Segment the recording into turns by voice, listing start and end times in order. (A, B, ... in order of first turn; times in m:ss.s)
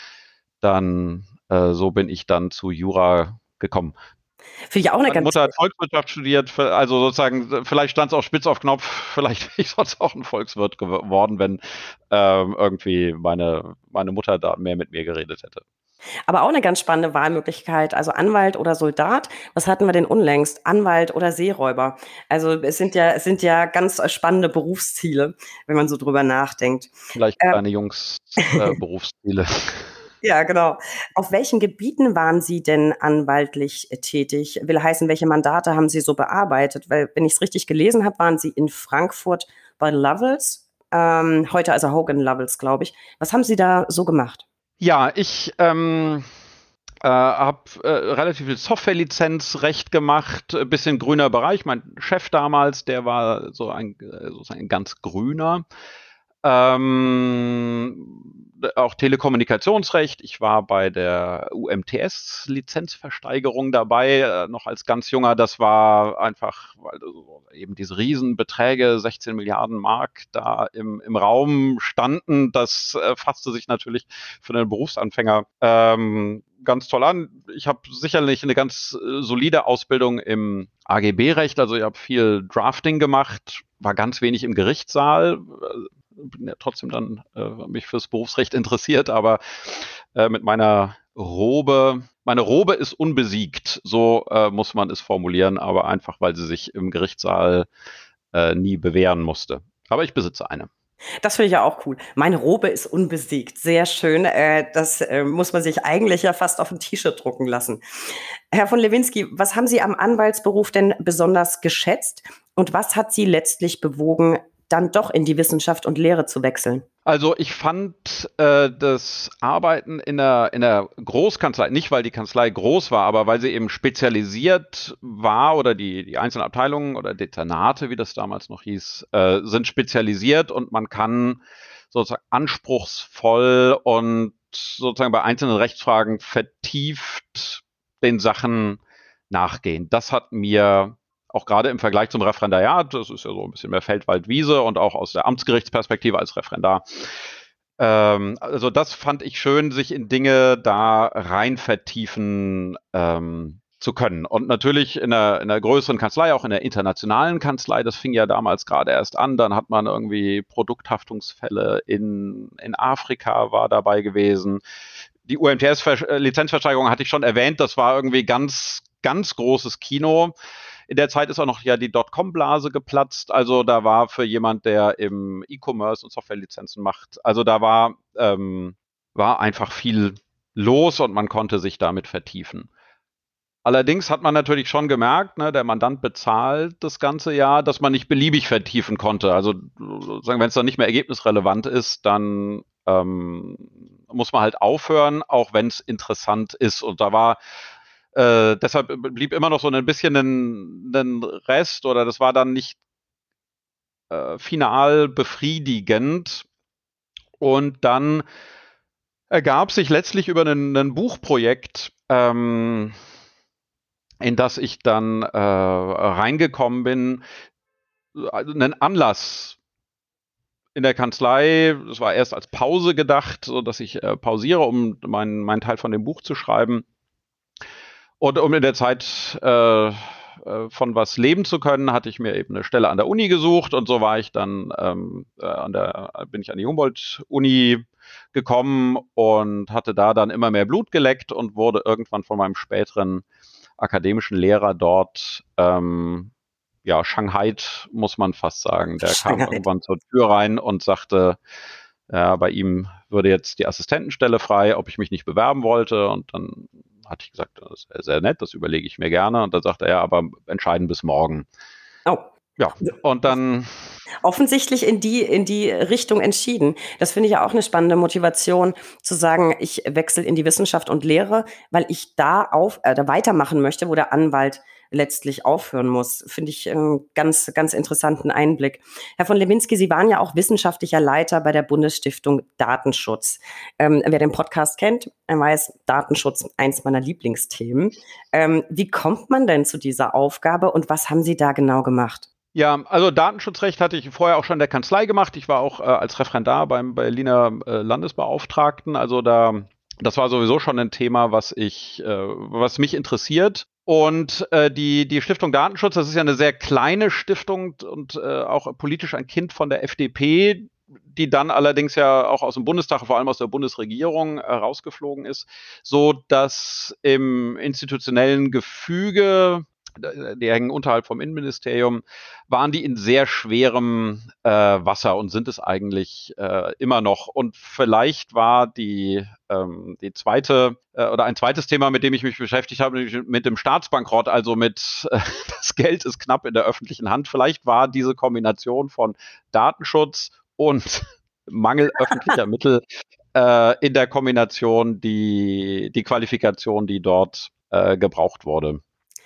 0:00.6-0:03.9 A
0:04.7-0:05.5 B
0:05.1-0:11.6 A
0:12.1-0:15.6 A
0:16.3-0:27.6 B
0:27.1-0:29.9 A
0:30.2-0:44.4 B
0:44.8-0:46.2 A
0:47.0-0:55.6 A
0:56.4-1:37.7 A
1:38.3-1:40.7 A
1:41.2-1:47.8 B
1:48.5-1:56.8 B
1:57.0-2:11.4 A
2:11.9-2:26.8 A
2:27.8-2:44.6 A
2:45.2-2:50.3 A
2:50.9-3:02.7 A
3:03.6-3:17.4 A
3:18.1-3:22.8 A
3:24.1-3:26.4 A
3:27.4-3:28.2 A
3:29.3-3:32.9 A
3:34.2-3:37.2 A
3:38.1-3:39.6 A
3:40.7-3:46.8 A
3:48.2-4:03.2 A
4:03.8-4:06.3 A
4:06.8-4:11.4 A
4:09.0-4:09.6 B
4:12.1-4:21.4 A
4:22.6-4:23.7 A
4:24.2-4:52.3 B
4:52.5-5:42.8 A
5:43.3-5:48.8 A